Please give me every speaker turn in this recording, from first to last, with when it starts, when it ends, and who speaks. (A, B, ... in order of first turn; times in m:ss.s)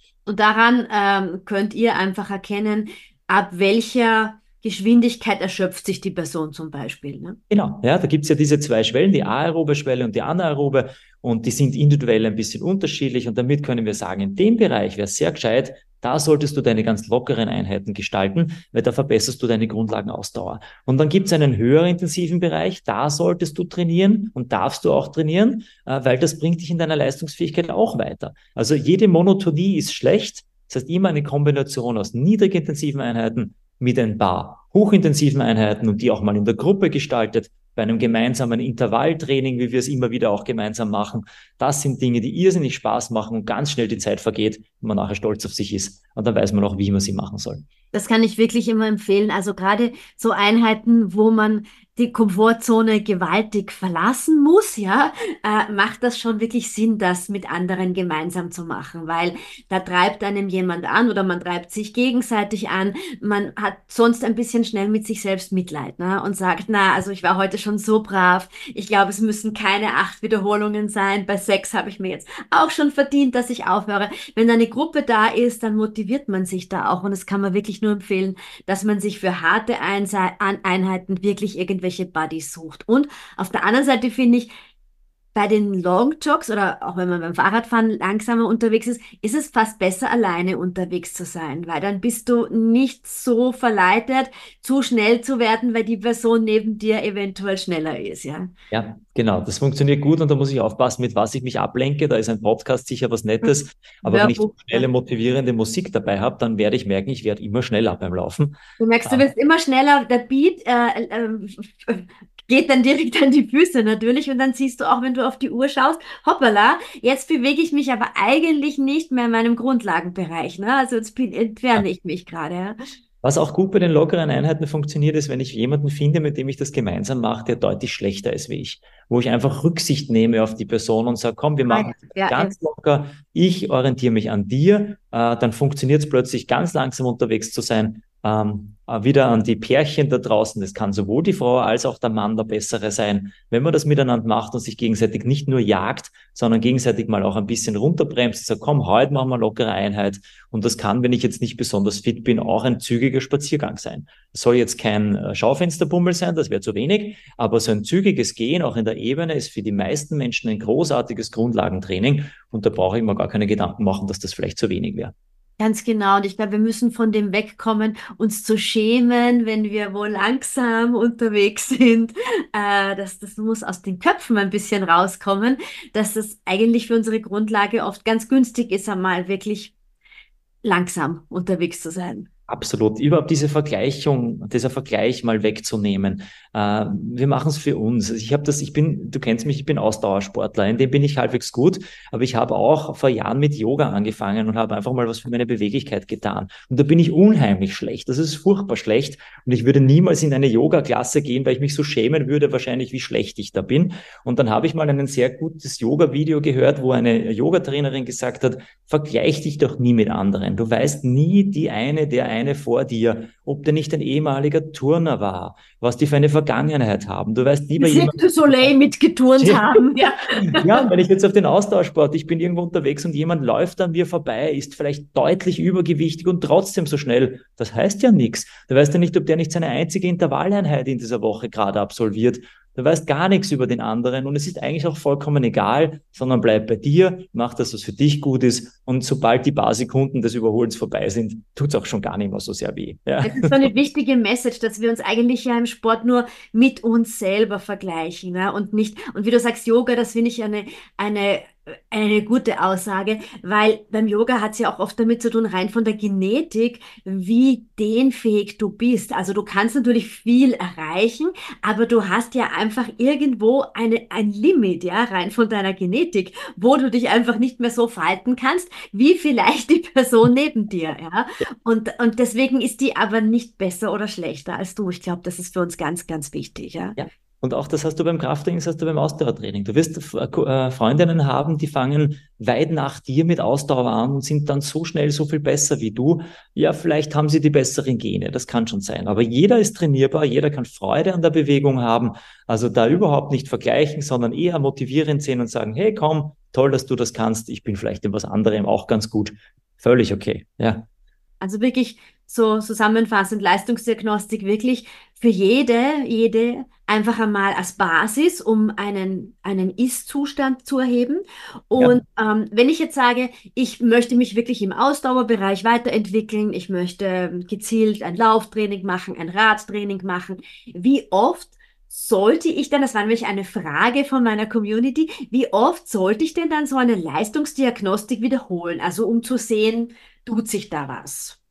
0:00.3-0:07.4 A
0:07.5-0:47.6 B
0:47.9-1:24.5 A
1:25.3-1:38.5 A
1:38.7-1:49.3 B
1:44.0-1:44.9 A
1:48.8-2:02.8 A
2:03.2-2:45.1 B
2:11.6-2:12.5 A
2:45.6-2:59.7 A
3:00.6-3:02.3 A
3:02.5-3:38.8 B
3:37.8-3:40.8 A
3:39.4-3:39.7 B
3:40.4-4:03.6 B
4:03.2-4:37.0 A
4:37.0-5:00.8 B
5:01.4-5:31.4 A